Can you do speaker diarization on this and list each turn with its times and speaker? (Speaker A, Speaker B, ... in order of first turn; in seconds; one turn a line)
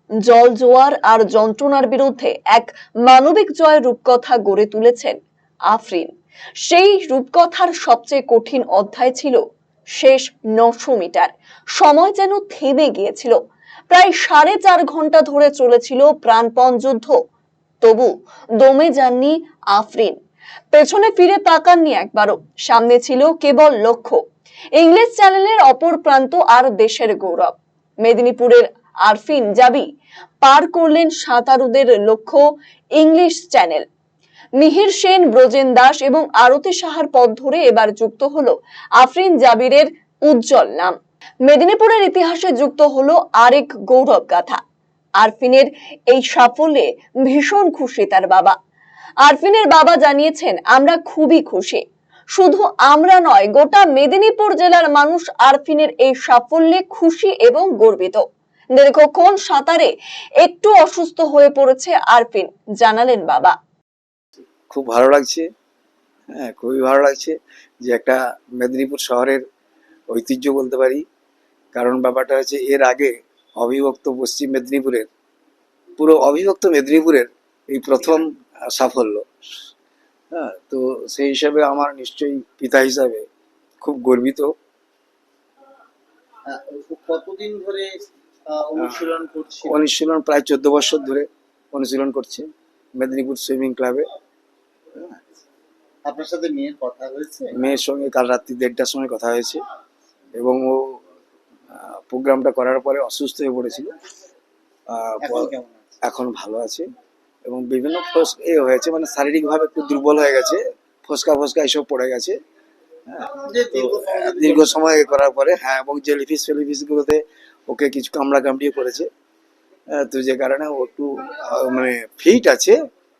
Speaker A: 0.3-5.2
Speaker A: 5.7-6.1
Speaker A: 6.6-9.4
Speaker A: 10.0-13.3
Speaker A: 13.9-17.1
Speaker A: 17.8-20.2
Speaker A: 20.7-24.2
Speaker A: 24.8-29.9
Speaker A: 30.4-32.4
Speaker A: 33.0-33.9
Speaker A: 34.6-41.0
Speaker A: 41.5-44.6
Speaker A: 45.2-48.6
Speaker A: 49.2-51.8
Speaker A: 52.3-58.2
Speaker A: 58.8-63.5
Speaker B: 64.7-65.5
Speaker B: 66.3-69.4
Speaker B: 70.1-71.0
Speaker B: 71.7-75.1
Speaker B: 76.0-79.3
Speaker B: 80.3-83.3
Speaker B: 83.8-84.5
Speaker C: 86.5-89.8
Speaker B: 89.6-92.5
Speaker B: 93.0-94.0
Speaker C: 96.0-97.5
Speaker B: 97.5-99.6
Speaker B: 100.4-101.0
Speaker B: 101.7-103.9
Speaker B: 104.9-105.5
Speaker C: 105.2-106.0
Speaker B: 106.0-106.9
Speaker B: 107.5-112.4
Speaker B: 113.1-119.1
Speaker C: 113.4-114.7
Speaker B: 120.0-122.8